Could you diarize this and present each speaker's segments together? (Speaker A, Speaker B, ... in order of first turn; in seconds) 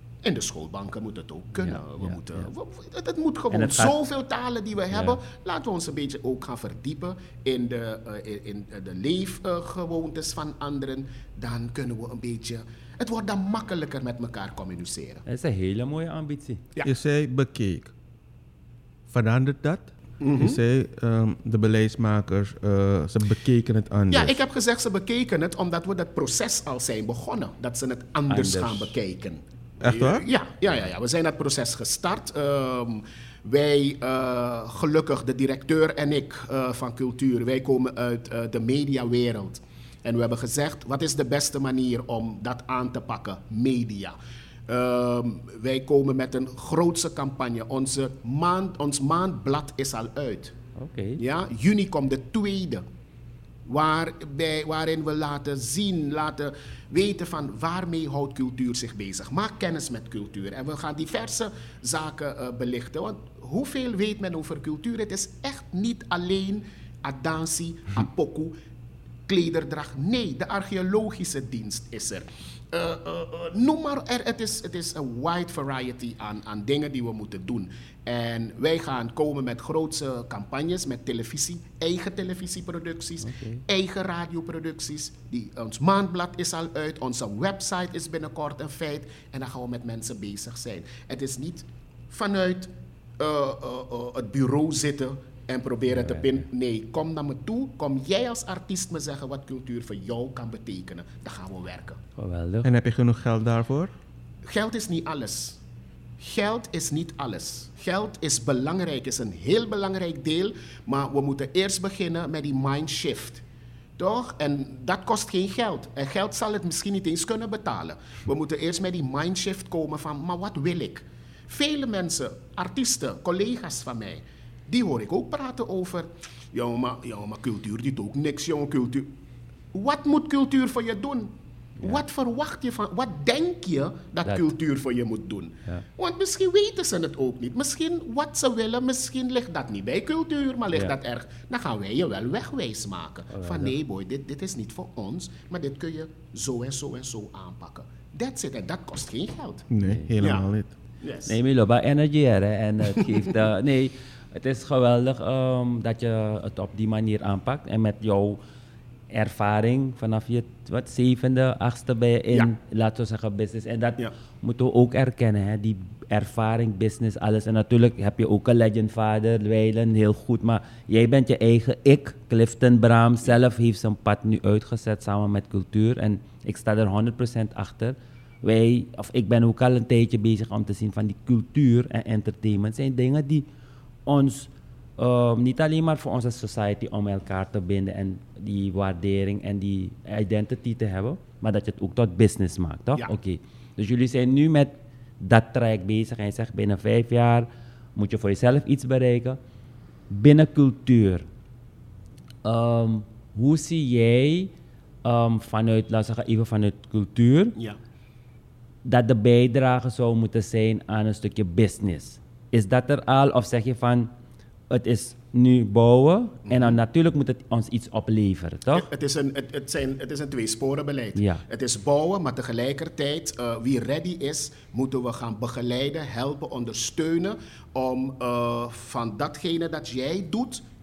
Speaker A: 0.2-15.2, 20.2-20.6, 24.1-44.1, 44.7-50.5, 51.2-52.8, 53.7-68.5, 69.3-102.0, 104.4-105.6, 106.2-113.4, 114.0-129.1, 129.7-149.7, 150.2-150.5, 151.0-151.3, 152.9-153.2, 216.5-216.8, 218.7-230.6
Speaker B: 1.6-2.4, 3.5-3.9, 4.9-5.2, 15.2-16.6, 28.3-28.9, 50.8-51.2, 83.2-83.6, 95.9-96.4, 102.2-102.7, 134.2-134.5, 143.3-143.7, 149.8-150.1, 151.3-158.4, 159.1-183.4, 184.1-199.4, 200.1-201.2, 202.4-204.5, 205.0-207.5, 208.8-214.1, 214.7-218.9, 221.2-221.4
Speaker C: 16.8-17.9, 19.1-24.4, 29.8-30.2, 102.6-103.9, 149.7-150.7